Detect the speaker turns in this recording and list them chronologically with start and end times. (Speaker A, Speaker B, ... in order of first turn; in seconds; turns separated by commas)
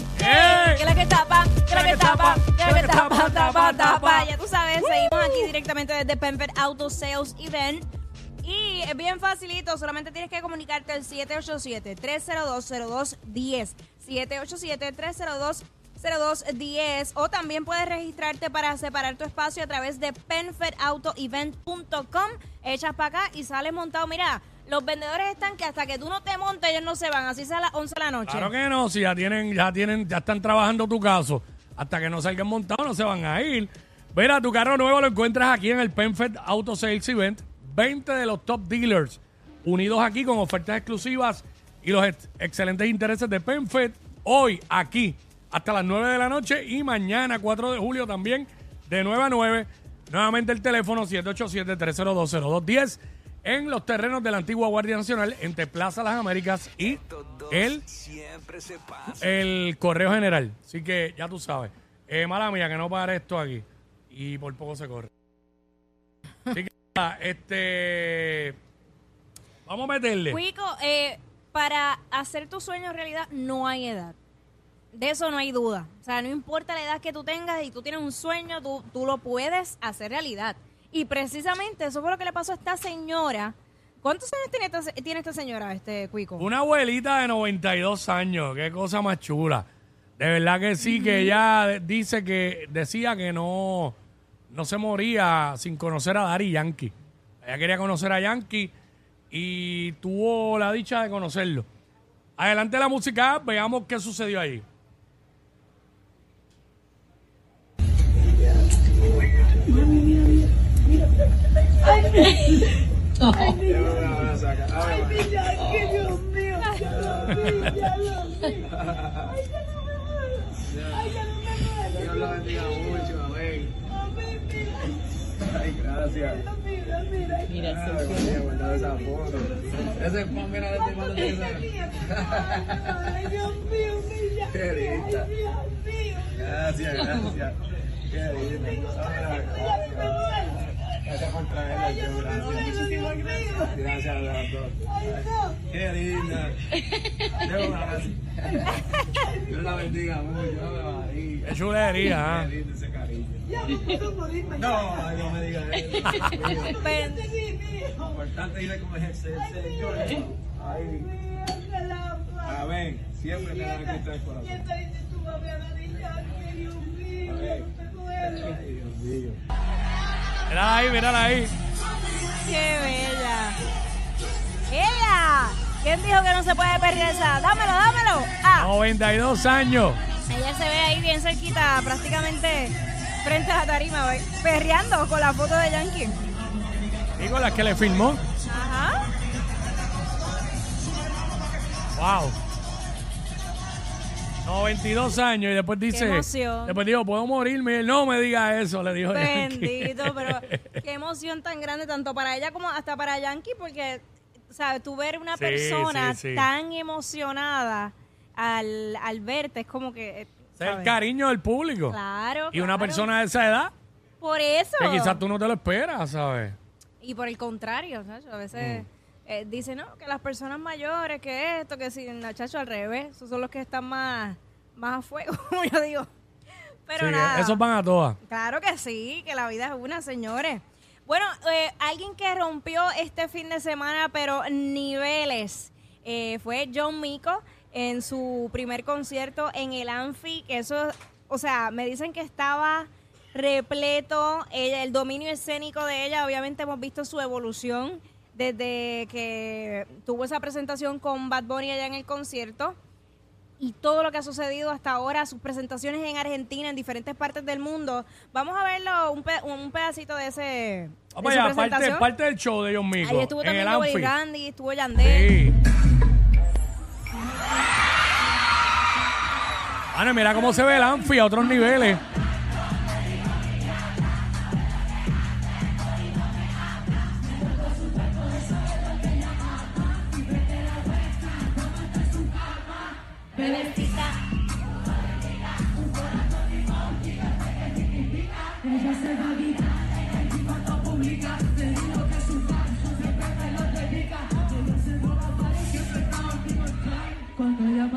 Speaker A: 0.2-0.9, Speaker B: 0.2-7.8, Speaker A: 1.7-4.3, Speaker B: 8.4-28.5, Speaker A: 28.3-57.8, Speaker C: 56.9-59.3, Speaker A: 59.2-65.1, Speaker A: 66.5-68.6, Speaker A: 69.7-70.4, Speaker B: 70.3-74.2, Speaker B: 74.9-86.5, Speaker A: 86.4-89.7, Speaker A: 90.2-94.0, Speaker B: 90.8-91.3, Speaker A: 94.5-98.7, Speaker A: 99.3-101.7, Speaker A: 102.4-104.7, Speaker D: 113.6-116.2, Speaker B: 116.2-117.1, Speaker D: 117.0-117.8, Speaker A: 117.3-117.9, Speaker D: 118.8-119.2, Speaker D: 120.7-121.2, Speaker D: 121.9-123.8, Speaker D: 125.4-126.5, Speaker D: 127.6-133.6, Speaker D: 134.4-135.4, Speaker D: 136.2-137.6, Speaker D: 138.1-140.3, Speaker D: 140.9-146.6, Speaker D: 147.3-148.7, Speaker B: 148.7-149.2, Speaker D: 149.5-151.6, Speaker A: 151.4-152.5, Speaker D: 152.2-156.9, Speaker B: 156.5-157.4, Speaker D: 158.0-161.2, Speaker D: 162.4-164.8, Speaker D: 167.2-169.4, Speaker A: 170.5-171.5, Speaker B: 172.4-173.6, Speaker B: 174.7-178.7, Speaker A: 178.6-180.0, Speaker B: 180.3-186.2, Speaker A: 187.2-188.2, Speaker B: 188.4-189.1, Speaker A: 191.9-192.4, Speaker A: 194.4-200.8, Speaker B: 195.9-196.8, Speaker B: 199.1-210.9, Speaker A: 205.3-206.5, Speaker A: 210.6-212.0, Speaker B: 211.9-213.1, Speaker A: 212.5-213.7, Speaker B: 214.2-215.2, Speaker A: 214.8-216.6, Speaker B: 217.0-226.1, Speaker A: 218.6-218.9, Speaker B: 226.9-227.6, Speaker A: 227.0-228.2, Speaker B: 228.2-252.8, Speaker B: 253.6-262.1, Speaker A: 261.1-264.1, Speaker B: 263.0-265.3, Speaker A: 265.0-265.6, Speaker A: 269.9-272.0, Speaker B: 283.4-284.2